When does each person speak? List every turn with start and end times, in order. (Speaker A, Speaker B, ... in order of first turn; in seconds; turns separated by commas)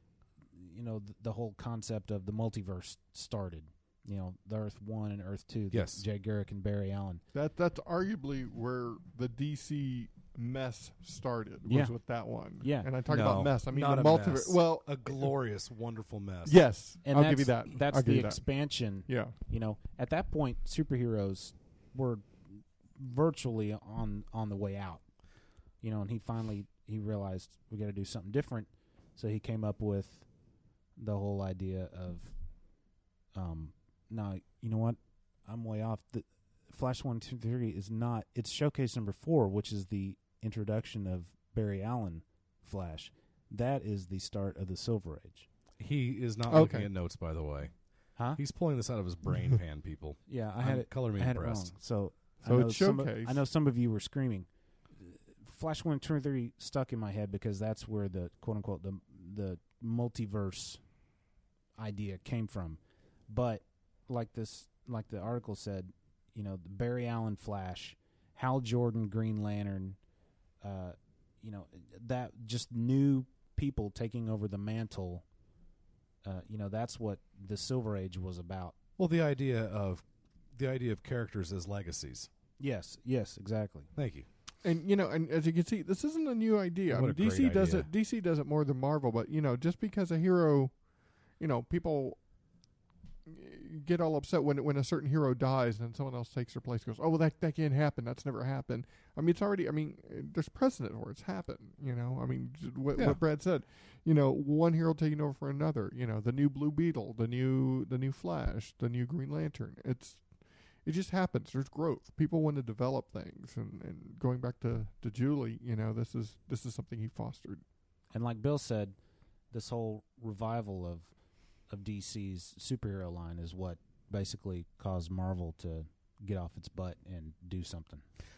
Speaker A: 0.6-7.2, Speaker B: 5.7-6.0, Speaker C: 7.3-15.3, Speaker A: 11.7-11.9, Speaker A: 12.6-12.9, Speaker B: 13.1-16.6, Speaker C: 16.5-18.4, Speaker A: 17.1-25.0, Speaker C: 19.1-19.3, Speaker A: 25.8-30.3, Speaker A: 31.0-32.4, Speaker A: 33.3-45.5, Speaker B: 45.8-47.7, Speaker C: 46.5-46.9, Speaker B: 48.4-51.7, Speaker A: 50.3-60.8, Speaker C: 52.4-53.4, Speaker A: 61.8-70.0, Speaker A: 70.6-75.2, Speaker A: 76.2-78.8, Speaker B: 79.0-80.0, Speaker B: 80.5-82.3, Speaker A: 82.6-83.9, Speaker B: 84.0-84.3, Speaker C: 84.6-90.7, Speaker B: 86.9-87.9, Speaker C: 91.4-92.2, Speaker C: 93.3-110.2, Speaker C: 110.8-117.6, Speaker A: 118.1-119.0, Speaker A: 119.5-121.1, Speaker A: 121.7-128.0